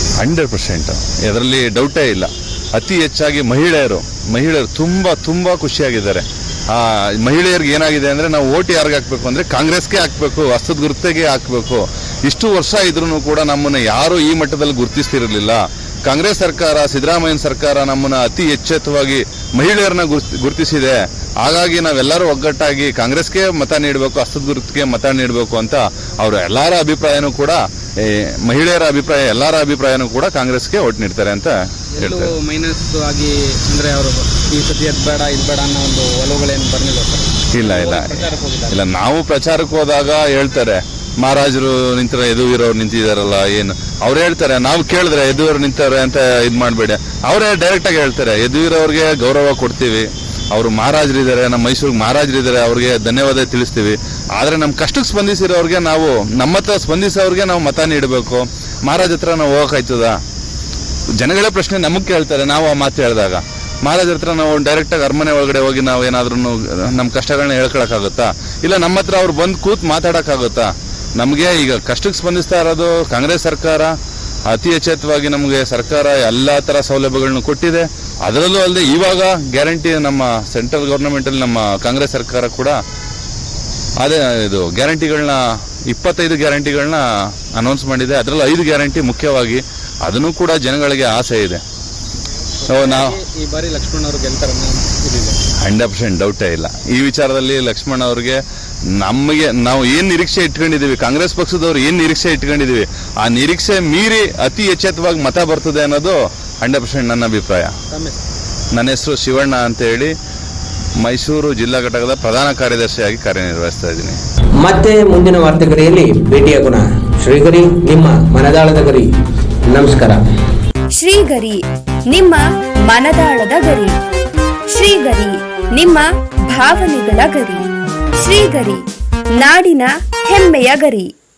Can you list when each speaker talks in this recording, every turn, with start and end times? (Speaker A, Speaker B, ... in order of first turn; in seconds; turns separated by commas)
Speaker A: 0.2-32.3, Speaker B: 32.0-38.8, Speaker A: 37.5-60.1, Speaker A: 61.2-70.7, Speaker A: 71.2-73.9, Speaker A: 74.5-82.8, Speaker A: 84.0-85.4, Speaker A: 85.9-87.0, Speaker A: 87.6-91.6, Speaker B: 92.7-95.4, Speaker A: 92.7-93.2, Speaker A: 95.6-98.4, Speaker A: 99.0-107.7, Speaker B: 107.9-108.2, Speaker A: 108.7-110.1, Speaker A: 111.0-114.2, Speaker C: 115.6-118.5, Speaker C: 119.7-120.2, Speaker D: 120.9-123.9, Speaker D: 124.7-127.7, Speaker D: 128.2-131.1